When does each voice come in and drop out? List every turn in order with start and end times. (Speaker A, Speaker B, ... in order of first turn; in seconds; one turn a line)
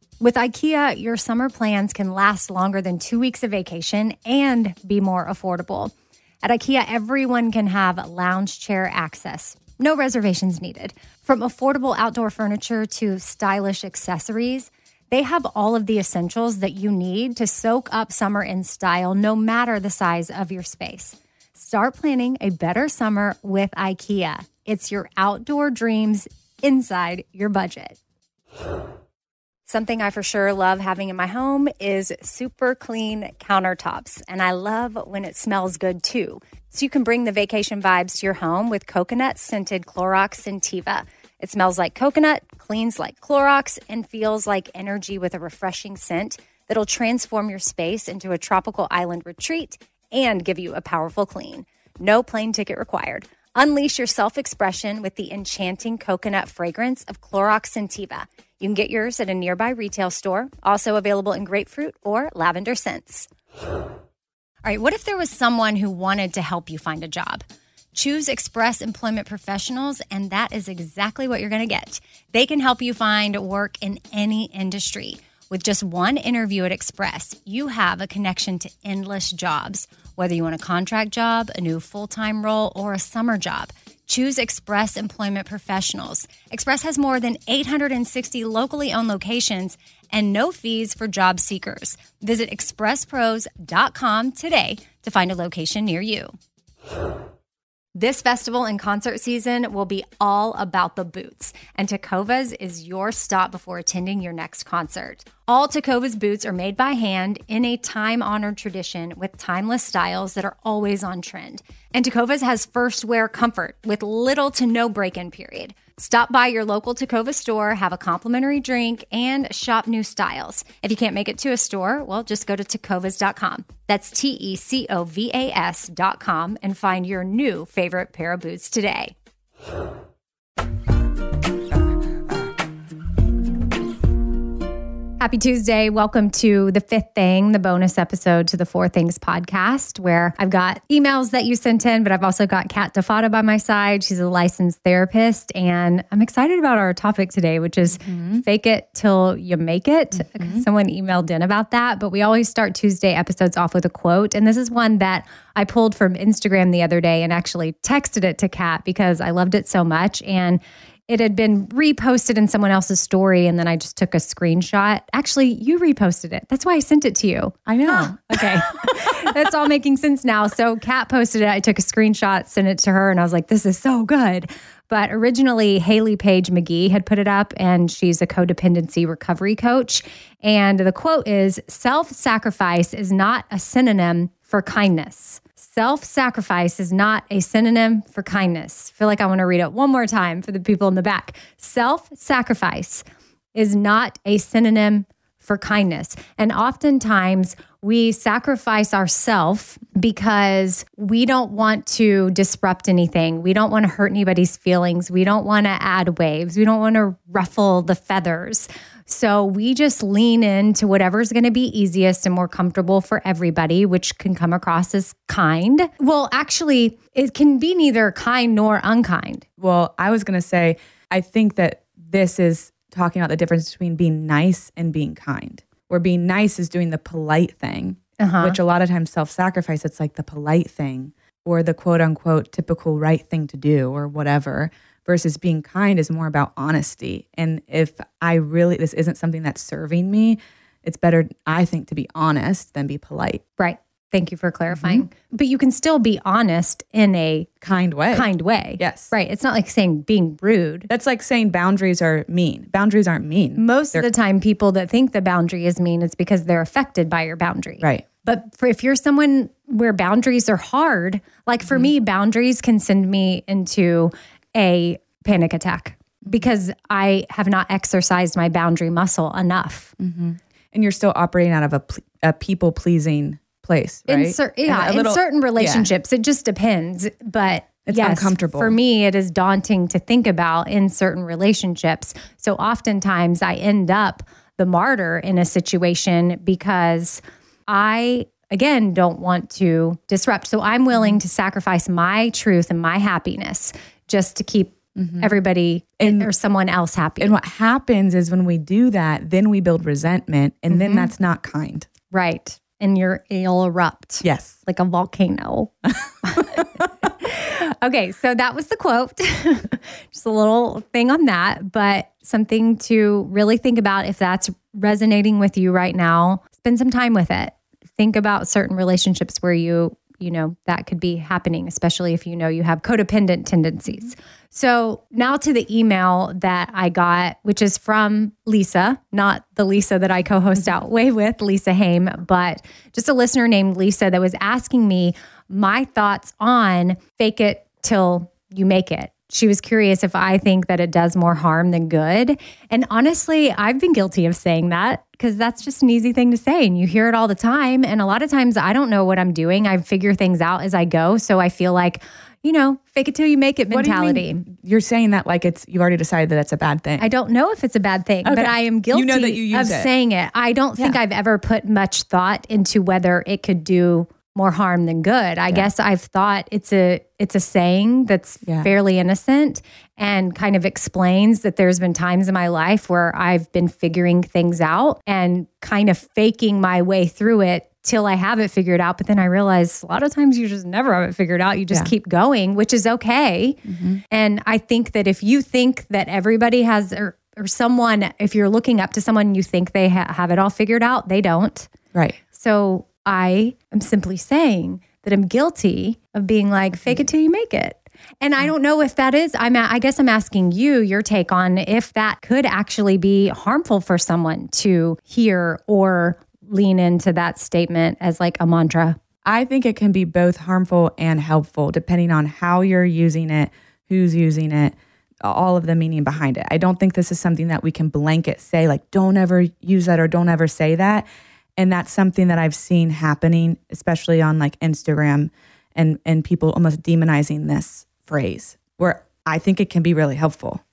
Speaker A: 0.2-28.0
Speaker A: 29.6-63.3
Speaker A: 64.6-67.4
Speaker A: 67.9-96.3
Speaker A: 97.9-129.1
Speaker A: 135.2-219.4
Speaker B: 148.0-148.4
Speaker B: 150.2-150.6
Speaker B: 167.7-169.3
Speaker B: 219.6-243.4
Speaker A: 228.2-228.6
Speaker A: 243.6-247.5
Speaker B: 244.7-245.0
Speaker B: 247.6-248.3
Speaker A: 248.1-250.9
Speaker B: 248.8-249.1
Speaker B: 250.9-254.1
Speaker A: 253.6-269.9
Speaker B: 257.8-258.1
Speaker B: 270.0-275.9
Speaker A: 274.1-297.3
Speaker B: 277.9-278.8
Speaker B: 294.9-295.3
Speaker B: 296.0-296.3
Speaker B: 297.2-301.9
Speaker A: 300.7-301.1
Speaker A: 302.1-354.5
Speaker B: 304.2-304.6
Speaker B: 353.7-357.1
Speaker A: 357.0-391.7
Speaker B: 358.2-359.9
Speaker B: 383.6-384.0
Speaker A: 392.3-409.0
Speaker B: 409.2-421.1
Speaker B: 421.6-430.6